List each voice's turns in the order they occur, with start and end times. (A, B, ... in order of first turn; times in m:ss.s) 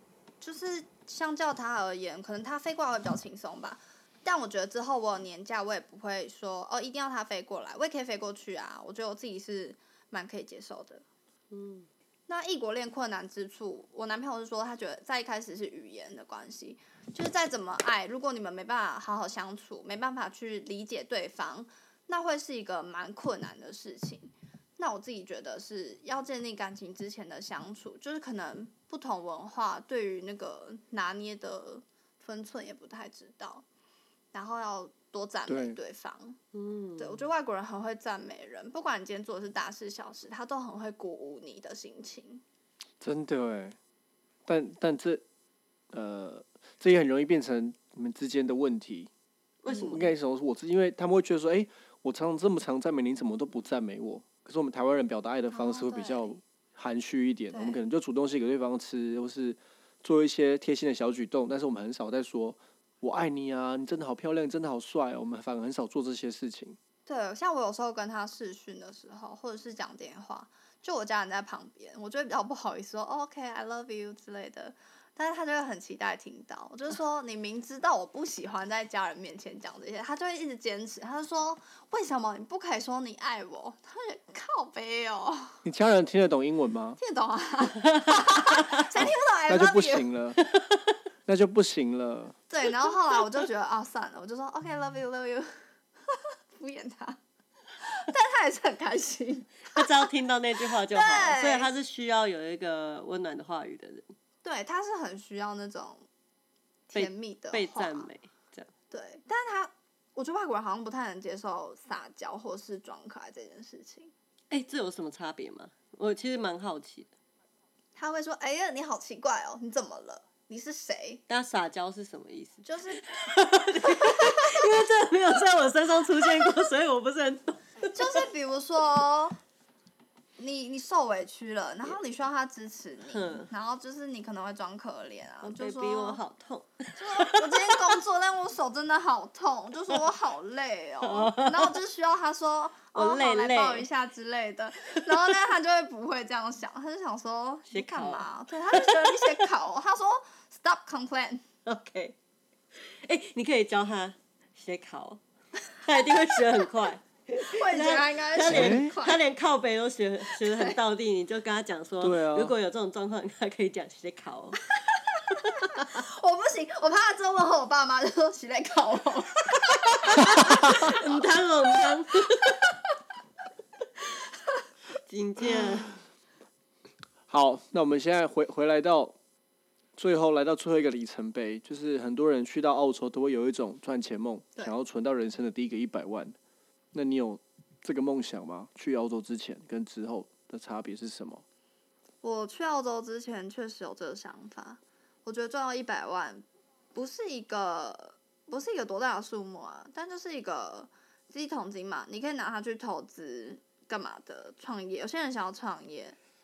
0:00.4-0:11.0 A
0:11.5-0:11.9 B
0:12.3-0:33.6 A
0:34.3-0:36.4 A
0:35.5-0:35.8 C
0:36.5-0:37.2 B
0:37.0-0:42.4 A
0:43.0-0:43.8 C
0:44.4-0:45.2 C
0:45.9-0:49.1 C
0:49.6-0:50.1 B
0:49.7-0:50.0 A
0:49.8-1:06.8 C
0:55.5-0:56.4 A
0:57.5-0:57.8 A
1:07.0-1:25.6 A
1:25.6-1:27.0 C
1:27.0-1:30.1 A
1:28.2-1:28.6 B
1:28.9-1:30.4 C
1:31.2-1:32.4 C
1:32.5-1:35.5 A
1:36.1-1:37.2 A
1:37.8-1:40.0 A
1:39.7-1:44.1 B
1:40.9-1:41.7 A
1:44.4-1:46.0 A
1:46.9-1:48.1 A
1:46.9-1:48.7 B
1:48.9-1:54.1 A
1:54.5-1:57.1 B
1:58.0-2:01.2 A
2:01.3-2:08.2 B
2:02.6-2:03.0 A
2:03.8-2:04.6 A
2:07.9-2:09.4 A
2:10.4-2:16.2 A
2:13.1-2:13.5 B
2:15.4-2:18.0 B
2:17.0-2:31.4 A
2:21.0-2:21.8 B
2:22.9-2:23.9 B
2:27.7-2:29.4 B
2:31.6-2:32.2 B
2:32.7-2:35.2 B
2:35.8-2:44.7 B
2:37.4-2:39.2 A
2:38.5-2:38.9 C
2:40.3-2:40.8 A
2:42.0-2:42.5 C
2:45.3-2:51.2 A
2:45.5-2:45.9 B
2:50.0-2:52.7 B
2:50.5-2:50.8 C
2:55.0-2:56.0 B
2:57.3-2:59.2 C
3:00.0-3:06.4 C
3:06.9-3:11.4 C
3:12.2-3:26.2 A